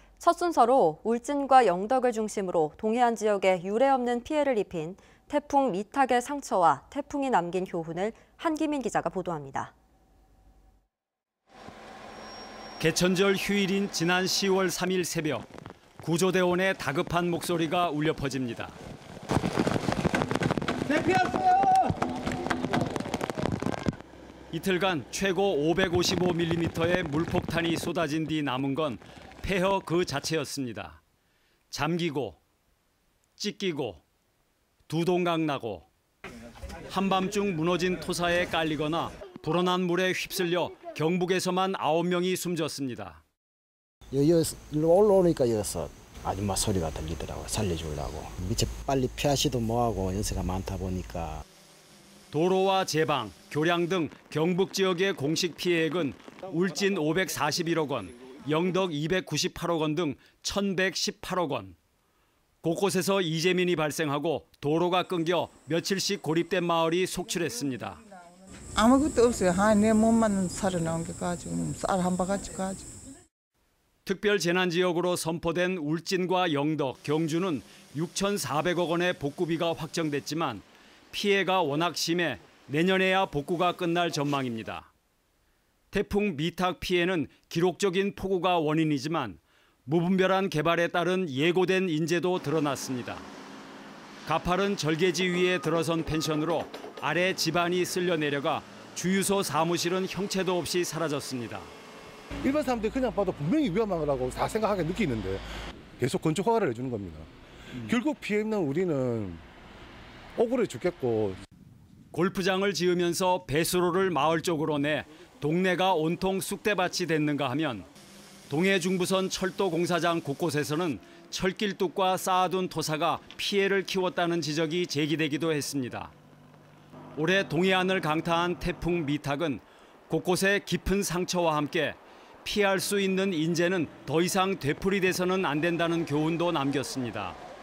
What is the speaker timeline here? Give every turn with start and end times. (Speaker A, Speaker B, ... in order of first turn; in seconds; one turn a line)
Speaker A: 0.2-9.7
Speaker B: 12.8-15.4
Speaker B: 16.0-18.8
Speaker B: 21.0-21.6
Speaker B: 24.5-31.0
Speaker B: 31.7-32.4
Speaker B: 33.4-34.0
Speaker B: 34.9-35.9
Speaker B: 36.9-43.2
Speaker C: 44.1-51.4
Speaker B: 52.3-61.8
Speaker B: 62.6-68.0
Speaker D: 68.7-72.9
Speaker B: 74.0-84.9
Speaker B: 85.9-93.3
Speaker B: 94.2-101.7
Speaker E: 102.4-105.4
Speaker E: 106.0-109.4
Speaker E: 110.4-111.4
Speaker B: 112.1-117.9
Speaker B: 118.5-126.1
Speaker B: 127.2-137.4